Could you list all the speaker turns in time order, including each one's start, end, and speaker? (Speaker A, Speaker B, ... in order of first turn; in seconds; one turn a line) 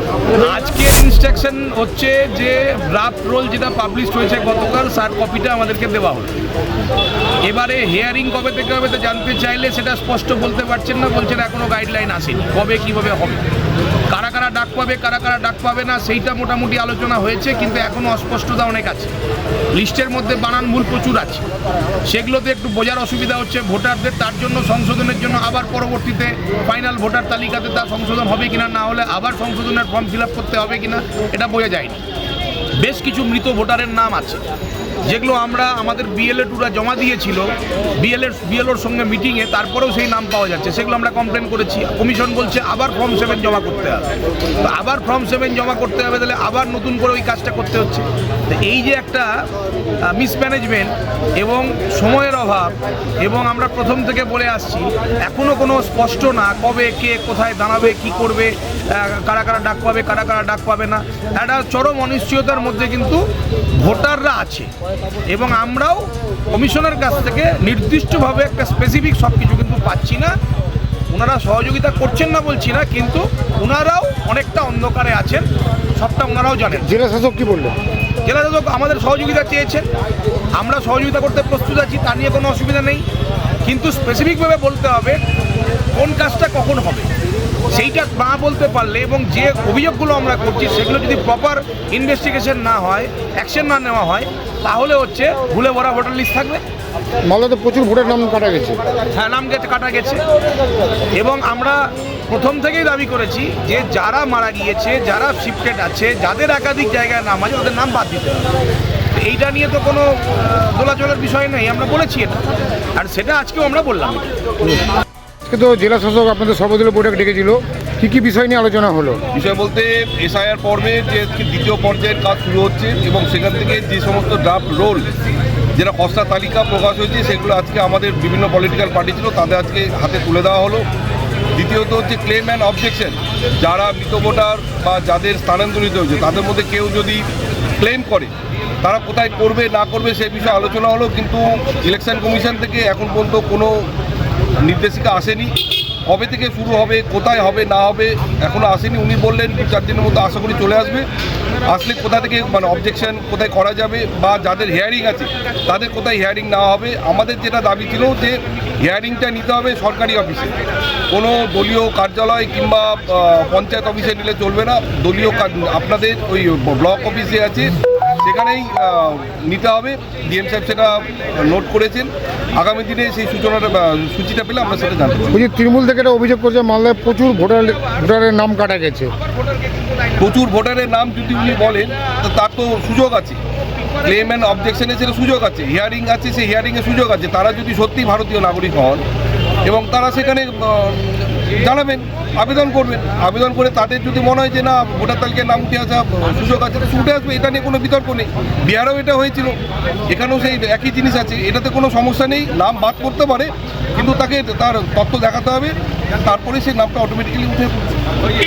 Speaker A: 0.3-6.4
Speaker A: 7.4-13.4
Speaker A: 14.1-19.1
Speaker A: 19.8-21.5
Speaker A: 22.1-32.0
Speaker A: 32.8-34.4
Speaker A: 35.0-44.1
Speaker A: 44.6-49.3
Speaker A: 50.1-63.2
Speaker A: 63.8-64.7
Speaker A: 65.3-70.3
Speaker A: 71.1-76.9
Speaker B: 76.8-77.8
Speaker A: 78.2-79.9
Speaker A: 80.5-83.0
Speaker A: 83.6-85.2
Speaker A: 85.9-87.1
Speaker A: 87.7-96.6
Speaker B: 97.2-98.8
Speaker A: 99.2-100.2
Speaker A: 101.1-108.5
Speaker A: 109.2-112.4
Speaker A: 113.0-114.3
Speaker B: 115.5-119.2
Speaker C: 119.3-125.1
Speaker C: 125.8-130.8
Speaker C: 131.5-137.3
Speaker C: 137.8-138.3
Speaker C: 138.8-143.9
Speaker C: 144.6-145.5
Speaker C: 146.1-151.1
Speaker C: 151.6-160.6
Speaker C: 161.1-175.3
Speaker B: 175.3-179.1
Speaker C: 180.2-183.4
Speaker C: 184.0-189.0
Speaker C: 189.6-199.6
Speaker C: 200.1-207.8